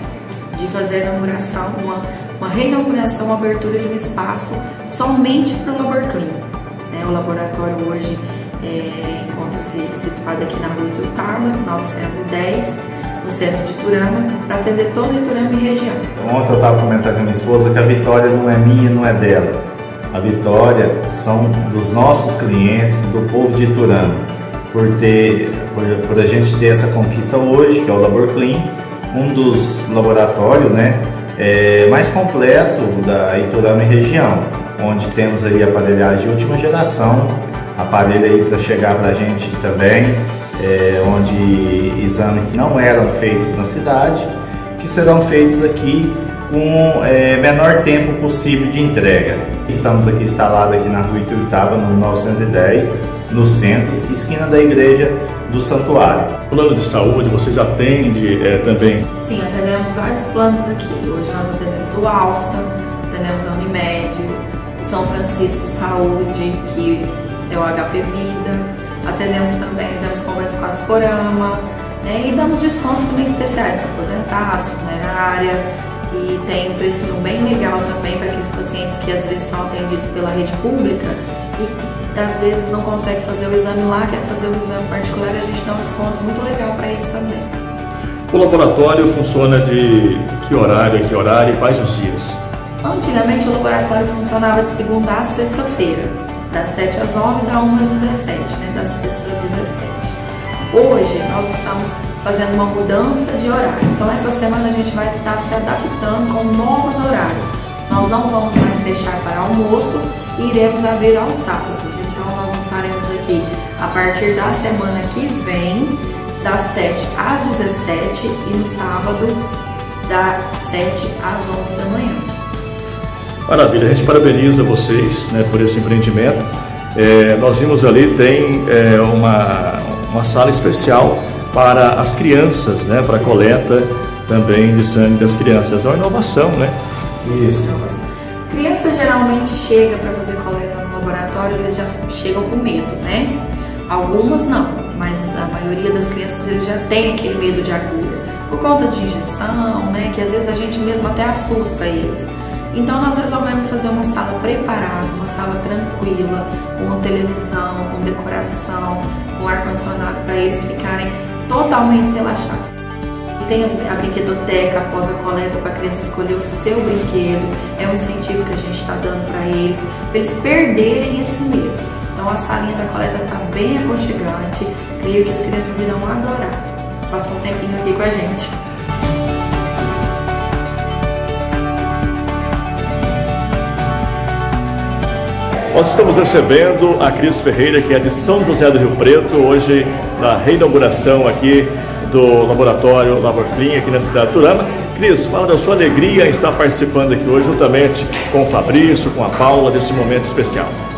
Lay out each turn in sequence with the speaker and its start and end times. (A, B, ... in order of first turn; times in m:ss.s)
0:00.5-0:16.1 A
0:16.2-0:56.3 B
0:56.5-0:59.0 C
0:59.2-1:27.6 A
1:28.3-1:32.4 C
1:32.8-1:40.2 A
1:40.7-1:59.4 A
2:00.0-2:02.3 A
2:03.5-2:16.8 C
2:17.6-2:42.7 A
2:43.4-2:58.6 A
3:05.7-3:20.8 C